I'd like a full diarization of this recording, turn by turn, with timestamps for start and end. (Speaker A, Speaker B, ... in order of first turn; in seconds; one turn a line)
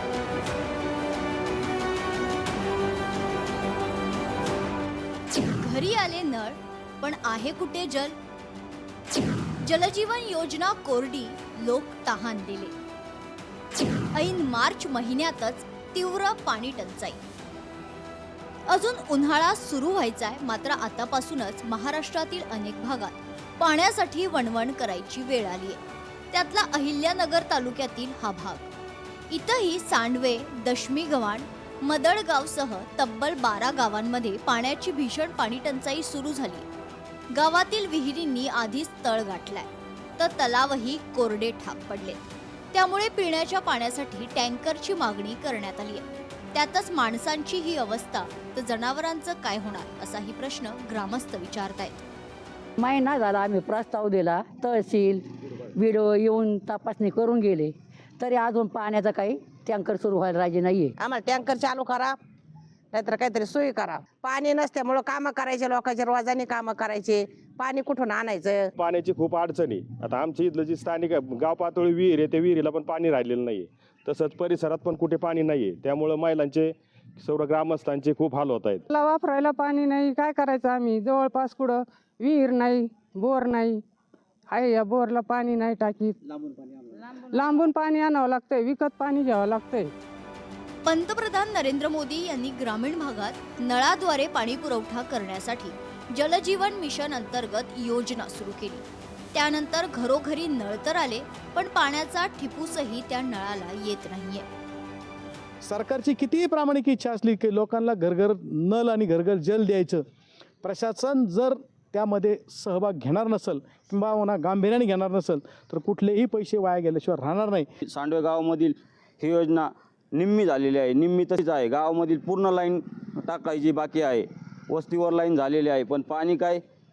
Speaker A: 5.3-8.2
Speaker A: 9.6-12.7
Speaker A: 14.1-17.2
Speaker A: 18.7-25.8
Speaker A: 26.3-28.7
Speaker A: 29.3-36.6
Speaker A: 37.3-52.0
Speaker B: 52.8-55.2
Speaker B: 55.7-60.9
Speaker C: 61.0-62.2
Speaker C: 62.9-68.7
Speaker D: 68.8-78.8
Speaker E: 78.9-83.8
Speaker E: 84.5-89.9
Speaker A: 90.8-104.5
Speaker F: 105.6-110.0
Speaker F: 110.6-117.7
Speaker G: 117.8-126.6